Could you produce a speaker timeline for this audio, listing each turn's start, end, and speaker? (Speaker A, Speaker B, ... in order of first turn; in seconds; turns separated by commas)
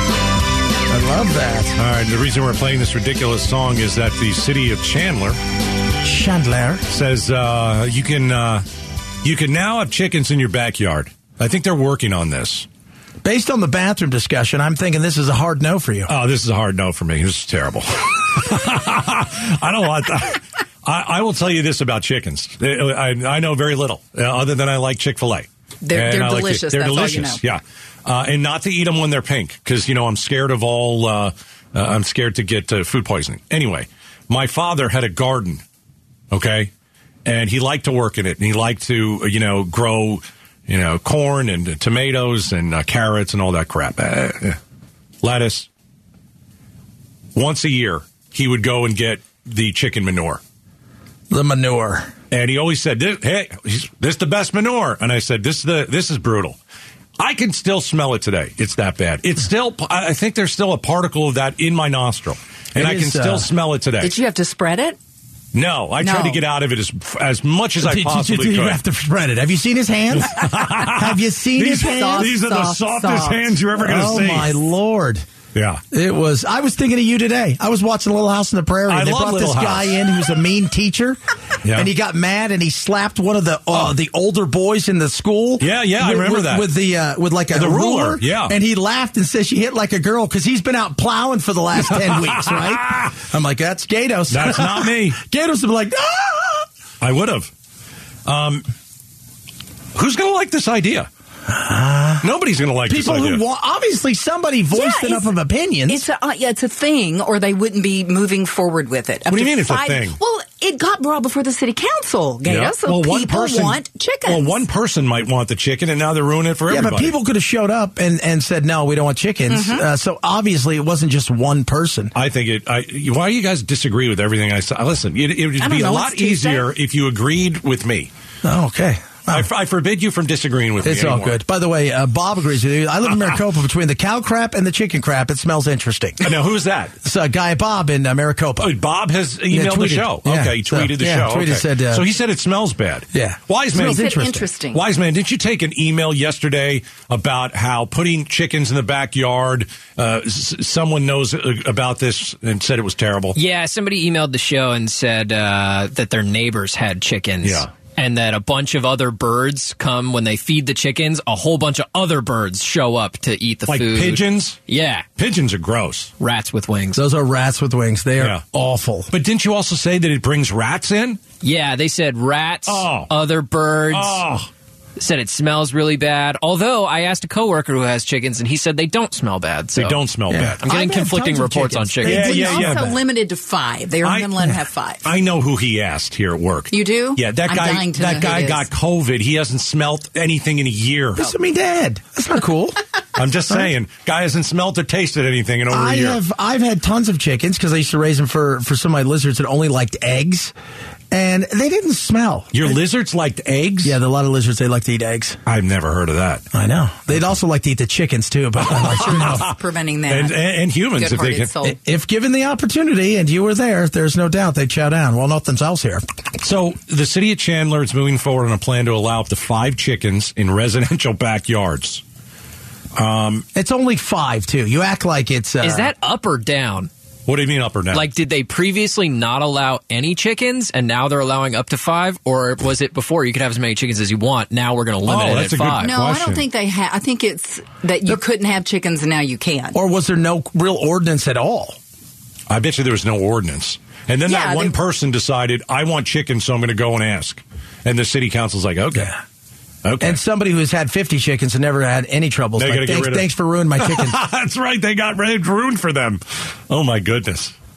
Speaker A: 0.9-1.8, Speaker B: 1.8-5.4, Speaker A: 6.0-6.8, Speaker B: 6.9-8.7, Speaker B: 9.2-12.7, Speaker A: 13.2-16.1, Speaker B: 16.1-35.6, Speaker C: 25.8-27.4, Speaker B: 36.3-36.7, Speaker B: 37.2-44.6, Speaker B: 45.2-45.7, Speaker B: 47.4-50.4, Speaker A: 51.3-52.1, Speaker B: 52.3-56.6, Speaker B: 57.2-64.1, Speaker A: 62.7-63.5, Speaker C: 64.0-65.0, Speaker B: 65.5-68.8, Speaker C: 66.0-66.4, Speaker A: 67.8-72.3, Speaker B: 70.2-74.6, Speaker C: 71.7-73.5, Speaker A: 73.8-75.3, Speaker B: 75.5-75.8, Speaker A: 75.9-96.7, Speaker B: 78.9-80.0, Speaker B: 81.6-81.9, Speaker B: 85.6-86.7, Speaker B: 87.5-88.6, Speaker B: 91.9-93.1, Speaker B: 94.3-95.2, Speaker B: 97.0-97.5, Speaker B: 98.3-98.7, Speaker B: 99.9-101.1, Speaker A: 101.5-102.3, Speaker B: 102.2-103.4, Speaker A: 102.9-106.0, Speaker C: 104.7-105.3, Speaker C: 105.9-114.6, Speaker B: 109.3-110.2, Speaker B: 112.5-117.1, Speaker A: 116.7-122.1, Speaker C: 119.5-119.8, Speaker B: 122.2-128.1, Speaker C: 125.6-126.7, Speaker A: 128.4-129.5, Speaker B: 129.3-131.4, Speaker A: 130.8-136.2, Speaker B: 136.2-136.9, Speaker A: 137.0-138.7, Speaker B: 138.6-144.2, Speaker A: 139.5-142.1, Speaker A: 143.1-144.5, Speaker C: 143.7-144.8, Speaker B: 144.7-153.4, Speaker D: 153.3-165.1, Speaker B: 157.4-157.7, Speaker B: 163.7-164.6, Speaker B: 165.2-166.1, Speaker D: 166.2-167.0, Speaker A: 166.9-169.1, Speaker B: 169.1-171.2, Speaker D: 171.4-174.2, Speaker B: 172.7-173.1, Speaker B: 173.9-174.5, Speaker D: 175.0-180.0, Speaker B: 179.8-180.6, Speaker A: 180.3-182.9, Speaker D: 180.6-182.5, Speaker B: 182.0-182.9, Speaker C: 182.1-185.0, Speaker B: 184.0-184.5, Speaker B: 185.0-191.3, Speaker C: 186.7-188.7, Speaker A: 191.2-192.8, Speaker B: 193.2-196.2, Speaker A: 195.7-200.5, Speaker A: 201.1-202.8, Speaker B: 202.5-204.0, Speaker A: 203.8-205.4, Speaker B: 205.5-206.4, Speaker A: 206.5-209.5, Speaker C: 208.6-211.8, Speaker B: 208.7-209.5, Speaker B: 210.1-211.5, Speaker A: 211.6-216.0, Speaker B: 216.4-222.0, Speaker B: 222.9-223.4, Speaker A: 223.6-225.9, Speaker D: 225.6-226.9, Speaker B: 227.3-228.1, Speaker D: 227.9-235.9, Speaker B: 235.1-236.4, Speaker C: 235.8-239.8, Speaker A: 239.8-241.8, Speaker B: 242.5-249.2, Speaker C: 244.2-244.8, Speaker B: 249.8-250.2, Speaker A: 250.0-254.2, Speaker B: 252.6-257.6